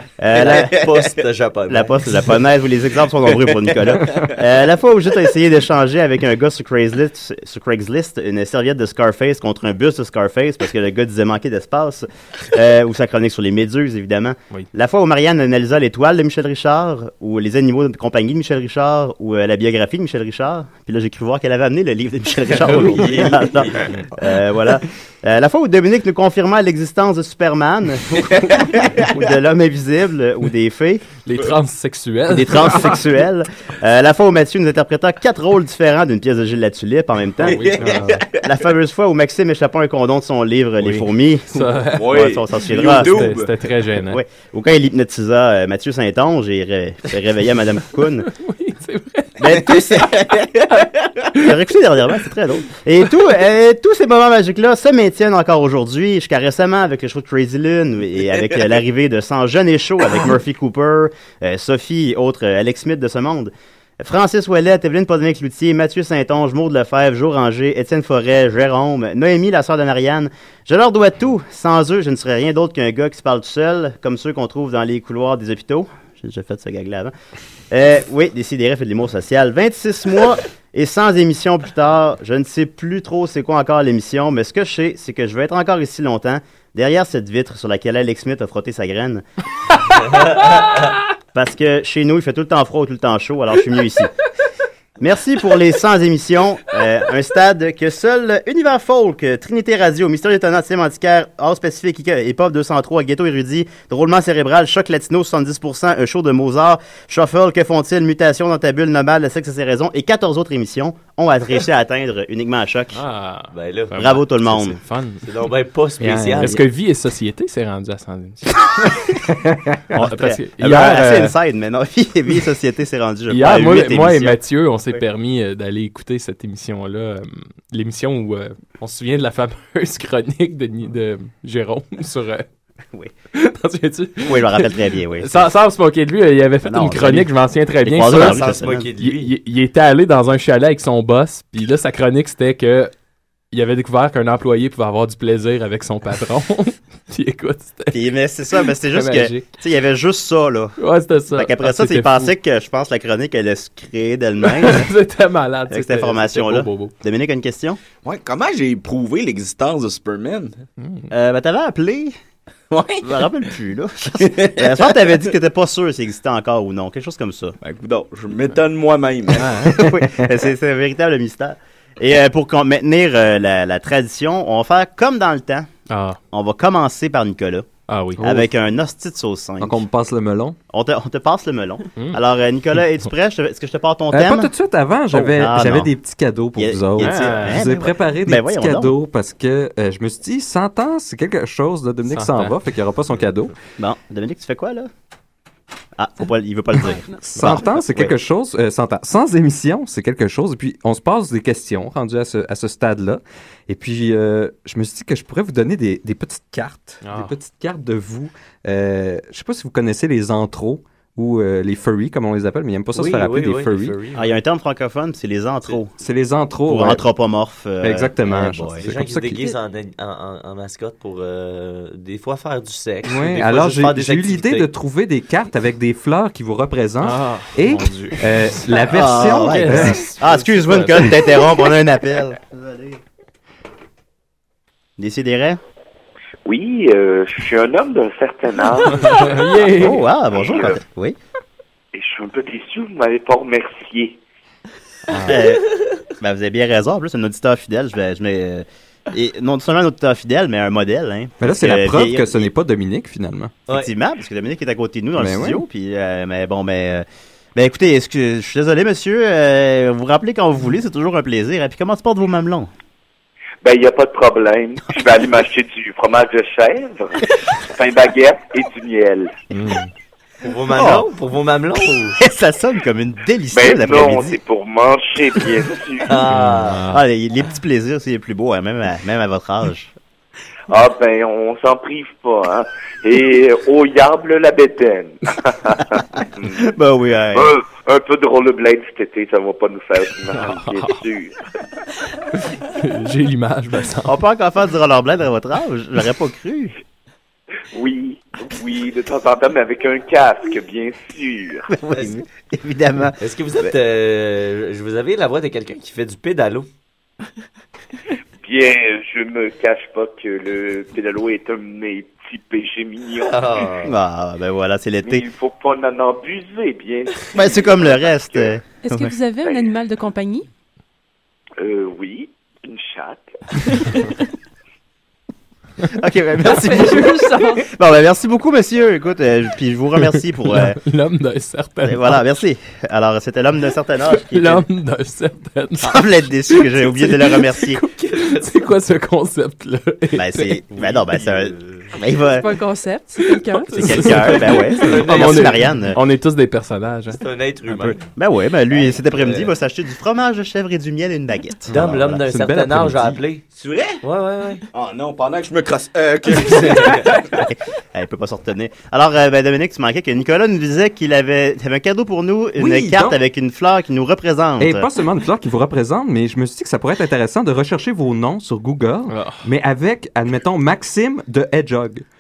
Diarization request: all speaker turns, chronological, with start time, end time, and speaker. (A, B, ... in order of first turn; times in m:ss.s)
0:00.2-0:00.9 A
0:00.3-0:02.1 B
0:01.7-0:31.0 A
0:22.7-0:23.1 C
0:22.7-0:23.7 B
0:28.5-0:28.8 D
0:31.2-0:33.0 C
0:32.3-0:43.3 A
0:37.4-0:38.2 C
0:37.4-0:38.4 D
0:40.8-0:44.2 C
0:41.9-0:43.5 D
0:44.1-0:48.3 A
0:48.4-0:50.1 C
0:49.4-0:50.2 A
0:49.8-0:50.4 D
0:51.4-1:17.1 A
1:17.7-1:29.2 A
1:31.3-1:34.1 A
1:35.0-1:53.0 A
1:52.9-1:55.2 C
1:53.5-1:54.0 B
1:54.0-1:54.8 A
1:55.2-1:56.6 B
1:56.0-1:59.1 C
1:59.5-1:59.8 E
1:59.9-2:01.4 C
1:59.9-2:04.4 A
2:03.3-2:12.5 C
2:13.3-2:22.9 C
2:14.2-2:15.5 A
2:16.6-2:17.3 A
2:17.8-2:18.9 A
2:18.0-2:19.3 B
2:23.5-2:28.0 C
2:27.9-2:30.8 A
2:28.9-2:29.5 C
2:30.8-2:32.3 C
2:31.3-2:34.9 A
2:34.4-2:36.9 C
2:35.7-2:37.8 A
2:38.0-2:40.6 D
2:41.1-2:42.2 A
2:42.7-2:43.1 D
2:43.0-2:47.6 A
2:44.2-2:44.6 D
2:47.6-2:49.6 D
2:49.4-2:49.8 C
2:49.6-2:55.7 A
2:55.9-2:56.2 C
2:56.3-2:59.8 A
2:57.9-2:58.4 C
2:59.6-3:00.6 E
3:00.7-3:04.5 A
3:04.1-3:13.5 E
3:05.1-3:05.9 A
3:06.6-3:09.0 A
3:07.0-3:07.7 C
3:12.1-3:12.6 C
3:13.8-3:14.9 A
3:16.0-3:18.1 A
3:17.3-3:34.0 E
3:27.0-3:27.4 C
3:33.0-3:34.4 B
3:34.1-3:35.9 A
3:36.0-3:37.0 E
3:36.7-3:38.9 A
3:37.8-3:39.5 E
3:38.8-3:44.7 B
3:43.0-3:50.0 E
3:47.0-3:51.3 C
3:48.9-3:53.0 A
3:55.0-3:55.6 A
3:56.4-3:59.4 F
3:59.0-4:00.1 C
3:59.8-4:01.2 A
4:00.4-4:00.8 F
4:01.9-4:04.2 F
4:05.1-4:05.5 C
4:05.2-4:05.6 A
4:06.2-4:12.5 A
4:11.4-4:13.6 E
4:13.7-4:22.7 A
4:15.2-4:15.6 E
4:23.6-4:29.4 F
4:29.5-4:29.9 C
4:30.4-4:32.2 B
4:32.2-4:34.4 A
4:33.5-4:36.2 F
4:36.1-4:36.9 B
4:36.3-4:37.0 C
4:36.9-4:39.9 A
4:40.7-4:46.0 F
4:46.4-4:47.6 A
4:47.3-4:51.3 F
4:50.3-4:51.0 C
4:52.4-4:54.2 C
4:54.1-4:56.8 A
4:57.7-5:01.7 F
5:01.7-5:03.2 A
5:03.2-5:06.7 B
5:08.4-5:13.7 F
5:13.2-5:14.0 B
5:13.8-5:15.2 A
5:15.0-5:18.6 F
5:17.3-5:19.1 A
5:18.8-5:20.5 G
5:21.6-5:23.3 F
5:25.9-5:30.8 A
5:26.4-5:27.7 G
5:30.0-5:32.2 C
5:31.8-5:34.6 A
5:34.1-5:40.6 C
5:35.8-5:37.8 A
5:37.9-5:38.6 B
5:40.1-5:42.5 A
5:40.7-5:41.9 B
5:42.4-5:44.5 G
5:43.3-5:47.9 C
5:43.8-5:46.0 A
5:44.8-5:45.5 B
5:47.1-5:48.0 B
5:48.2-5:52.2 A
5:48.7-5:49.5 B
5:51.7-5:53.5 B
5:52.3-5:53.2 E
5:53.6-5:54.0 D
5:54.0-5:54.6 B
5:54.7-5:57.3 D
5:57.4-6:04.9 A
6:02.6-6:03.2 E
6:04.6-6:12.0 E
6:09.1-6:09.4 C